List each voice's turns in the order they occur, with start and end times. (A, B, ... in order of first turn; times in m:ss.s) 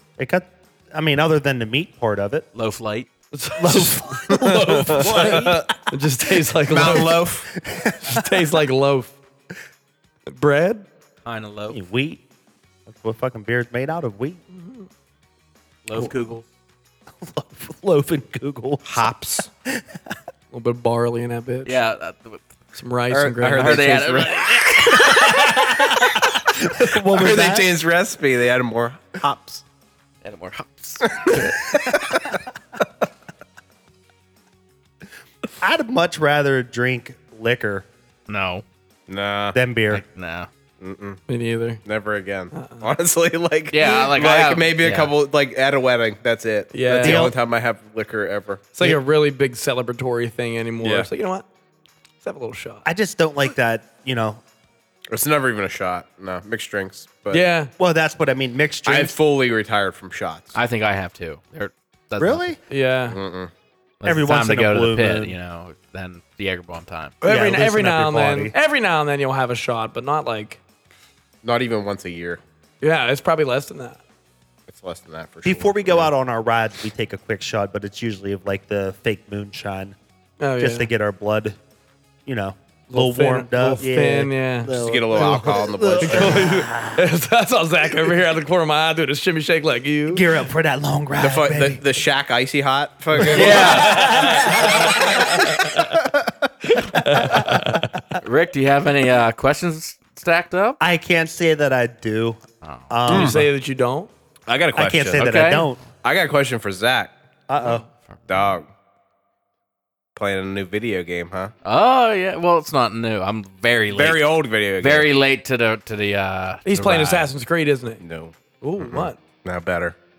0:00.2-0:02.5 A
0:02.5-0:03.1 B
0:03.3-0:07.2 C
0:03.6-0:05.7 A
0:04.3-0:05.7 D
0:06.7-0:07.5 D
0:07.5-0:08.4 A
0:08.0-0:09.1 C
0:10.3-0:10.9 C
0:11.2-0:11.8 B
0:11.7-0:12.2 A
0:12.9-0:14.4 A
0:14.5-0:14.9 C
0:15.8-0:16.5 B
0:17.2-0:19.1 A
0:18.8-0:19.5 D
0:20.5-0:21.8 C
0:21.6-0:22.4 B
0:22.8-0:24.2 C
0:23.1-0:25.4 D
0:23.5-0:25.0 B
0:25.1-0:27.7 A
0:26.9-0:29.6 D
0:30.2-0:31.6 B
0:31.3-0:32.2 D
0:35.6-0:37.9 A
0:38.3-0:38.6 B
0:39.1-0:39.6 D
0:39.5-0:40.0 A
0:39.9-0:40.5 B
0:40.8-0:41.2 D
0:41.3-0:41.8 C
0:41.8-0:49.0 D
0:42.5-0:42.9 C
0:43.7-0:45.1 B
0:46.7-0:47.3 C
0:47.0-0:47.4 A
0:48.8-0:51.4 C
0:50.8-0:51.1 D
0:52.2-0:52.8 C
0:52.8-0:54.4 A
0:55.1-0:57.4 D
0:57.3-0:57.7 C
0:57.8-0:59.1 A
0:58.9-1:00.5 D
1:00.6-1:02.6 B
1:02.2-1:02.6 A
1:02.7-1:03.2 C
1:03.1-1:03.5 D
1:04.0-1:07.2 B
1:04.0-1:05.4 A
1:07.2-1:10.6 C
1:07.2-1:08.5 A
1:11.4-1:12.4 D
1:12.8-1:14.0 C
1:14.7-1:16.1 D
1:15.4-1:20.0 A
1:20.4-1:20.9 C
1:20.6-1:21.6 A
1:22.3-1:27.1 A
1:22.9-1:30.2 C
1:24.7-1:26.5 D
1:30.1-1:31.8 A
1:31.2-1:34.1 D
1:33.2-1:35.5 A
1:33.2-1:35.8 C
1:33.4-1:34.1 B
1:36.7-1:38.1 C
1:37.1-1:37.8 A
1:38.2-1:40.8 B
1:40.8-1:43.5 A
1:42.6-1:42.9 B
1:43.1-1:43.5 D
1:43.1-1:44.1 C
1:44.5-1:45.3 D
1:44.8-1:45.8 A
1:45.2-1:45.7 B
1:46.0-1:47.1 D
1:47.5-1:47.8 A
1:47.6-1:48.6 B
1:48.3-1:48.7 D
1:50.2-1:51.5 D
1:51.6-1:54.3 B
1:53.9-1:55.1 D
1:54.8-1:57.3 B
1:56.7-1:58.0 C
1:58.0-2:00.0 D
1:58.6-1:59.2 C